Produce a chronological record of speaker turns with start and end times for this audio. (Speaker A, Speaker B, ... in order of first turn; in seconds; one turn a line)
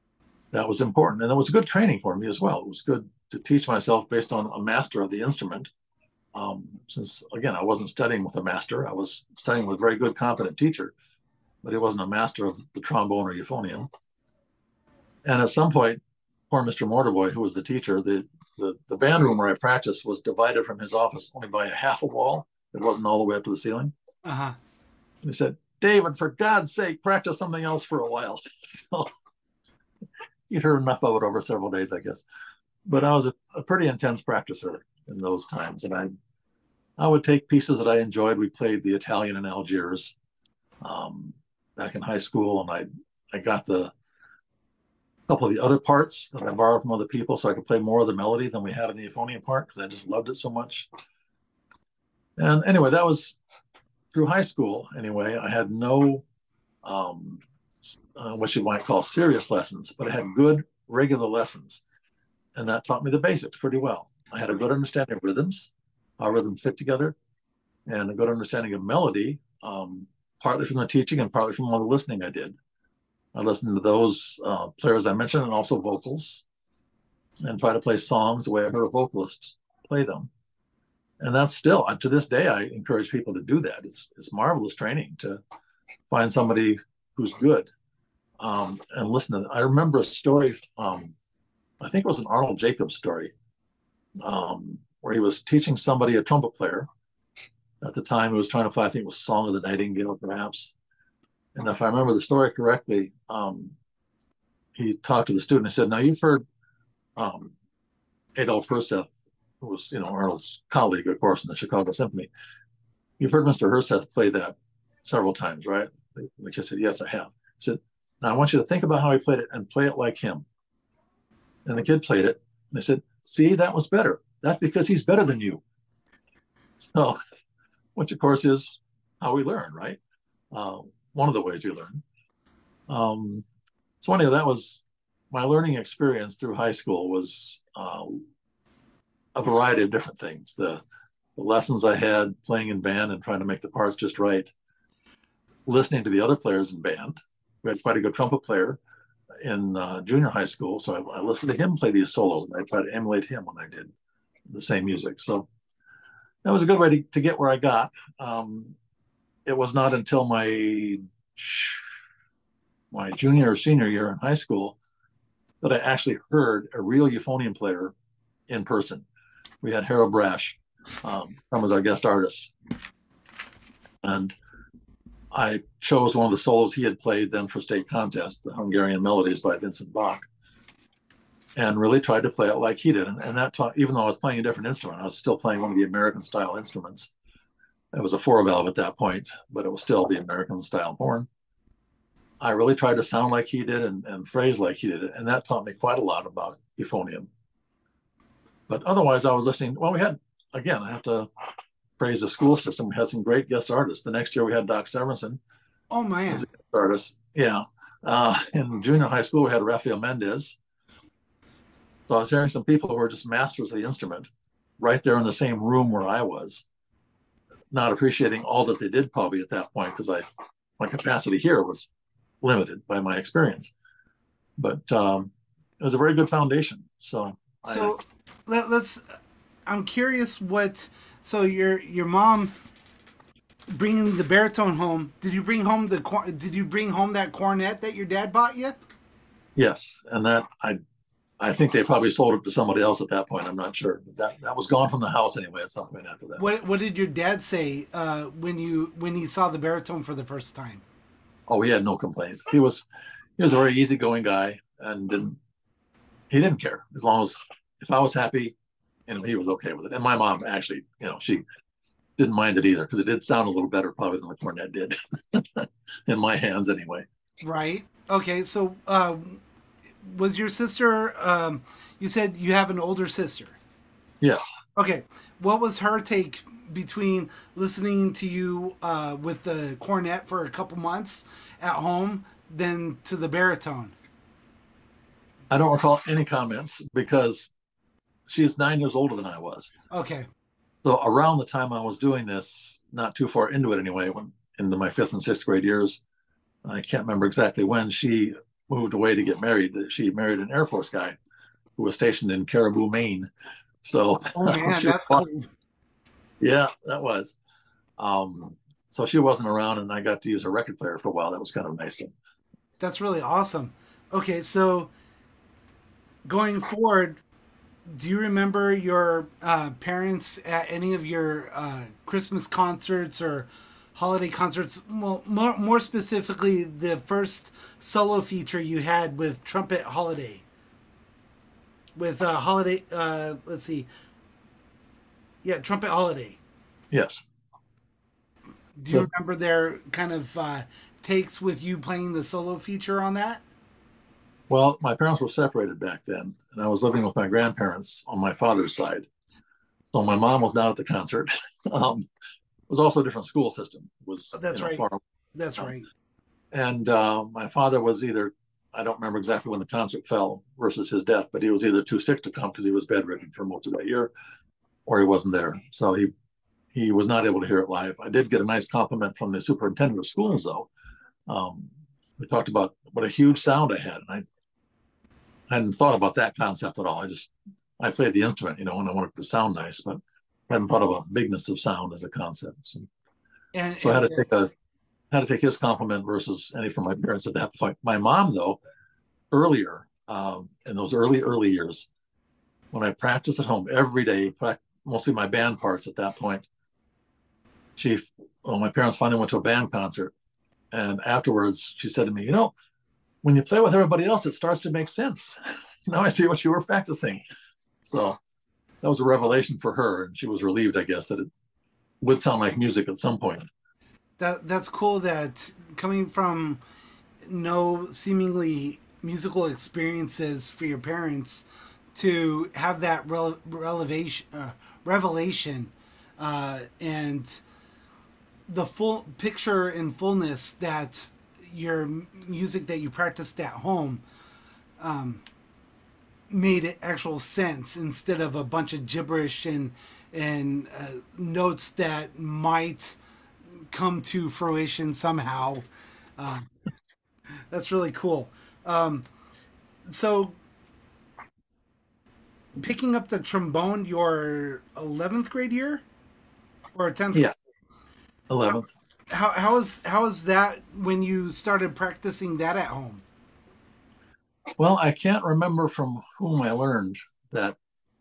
Speaker A: 0.5-5.7
Speaker A: 6.3-10.9
Speaker A: 11.6-13.9
Speaker A: 15.2-23.9
Speaker B: 24.2-24.6
Speaker A: 25.2-29.1
Speaker A: 30.5-32.2
Speaker A: 32.9-36.1
Speaker A: 37.0-40.2
Speaker A: 40.8-43.9
Speaker A: 45.3-50.9
Speaker A: 52.4-53.4
Speaker A: 54.1-56.2
Speaker A: 56.8-61.8
Speaker A: 62.5-67.2
Speaker A: 67.9-72.6
Speaker A: 73.3-76.4
Speaker A: 77.4-80.3
Speaker A: 81.2-85.4
Speaker A: 86.1-87.7
Speaker A: 88.4-91.2
Speaker A: 91.8-93.3
Speaker A: 94.2-96.9
Speaker A: 97.8-100.8
Speaker A: 101.5-103.8
Speaker A: 104.8-106.4
Speaker A: 107.2-107.5
Speaker A: 108.4-109.1
Speaker A: 109.6-112.3
Speaker A: 113.2-120.5
Speaker A: 121.7-125.6
Speaker A: 126.8-127.2
Speaker A: 128.0-130.0
Speaker A: 130.5-132.0
Speaker A: 132.9-133.5
Speaker A: 134.0-138.2
Speaker A: 139.4-140.8
Speaker A: 141.4-144.5
Speaker A: 145.7-148.8
Speaker A: 149.4-153.9
Speaker A: 154.5-155.5
Speaker A: 156.4-158.8
Speaker A: 159.5-161.9
Speaker A: 162.9-164.8
Speaker A: 165.6-167.9
Speaker A: 168.5-169.1
Speaker A: 169.6-172.5
Speaker A: 174.0-174.3
Speaker A: 175.3-180.3
Speaker A: 181.6-187.1
Speaker A: 187.9-191.3
Speaker A: 192.4-197.3
Speaker A: 198.7-201.3
Speaker A: 202.0-205.4
Speaker B: 205.9-206.5
Speaker A: 206.3-210.6
Speaker A: 212.1-216.7
Speaker A: 217.7-220.2
Speaker A: 220.8-221.9
Speaker A: 222.4-223.7
Speaker A: 224.6-227.9
Speaker B: 227.7-229.0
Speaker B: 229.7-232.5
Speaker B: 233.7-238.8
Speaker A: 239.6-240.8
Speaker A: 241.4-246.4
Speaker B: 246.4-250.8
Speaker A: 251.5-252.9
Speaker A: 253.4-255.4
Speaker A: 256.3-258.6
Speaker A: 259.1-261.4
Speaker A: 262.2-267.1
Speaker B: 267.4-269.4
Speaker B: 270.0-273.6
Speaker A: 274.2-274.5
Speaker B: 274.8-283.9
Speaker A: 285.5-287.5
Speaker A: 288.3-289.7
Speaker B: 289.9-290.3
Speaker A: 290.8-296.0
Speaker A: 296.6-301.2
Speaker A: 301.8-303.3
Speaker A: 303.8-305.2
Speaker B: 304.3-305.5
Speaker A: 306.4-307.4
Speaker A: 308.0-312.1
Speaker B: 312.8-314.9
Speaker B: 316.3-317.2
Speaker B: 317.9-330.4
Speaker B: 332.0-333.9
Speaker B: 335.4-336.4
Speaker A: 336.9-337.2
Speaker B: 338.8-343.4
Speaker A: 344.5-349.1
Speaker A: 349.9-352.1
Speaker A: 352.7-355.0
Speaker B: 354.4-354.8
Speaker B: 355.3-355.9
Speaker A: 356.5-364.1
Speaker A: 364.9-366.1
Speaker A: 366.7-370.7
Speaker A: 371.3-374.2
Speaker A: 375.5-382.9
Speaker B: 383.5-384.2
Speaker A: 383.8-384.5
Speaker A: 385.1-388.6
Speaker A: 389.3-391.9
Speaker A: 392.7-396.5
Speaker A: 397.8-400.1
Speaker A: 400.7-402.5
Speaker A: 403.2-407.2
Speaker A: 407.8-408.2
Speaker A: 408.8-411.3
Speaker A: 412.0-413.4
Speaker B: 414.2-416.6
Speaker B: 417.2-427.4
Speaker B: 428.5-434.0
Speaker B: 434.8-435.2
Speaker B: 436.3-443.0
Speaker B: 443.7-445.6
Speaker B: 446.2-446.5
Speaker B: 447.5-449.1
Speaker B: 449.9-450.4
Speaker B: 452.6-455.8
Speaker B: 456.7-457.3
Speaker A: 458.3-458.7
Speaker B: 459.1-463.0
Speaker A: 464.6-467.6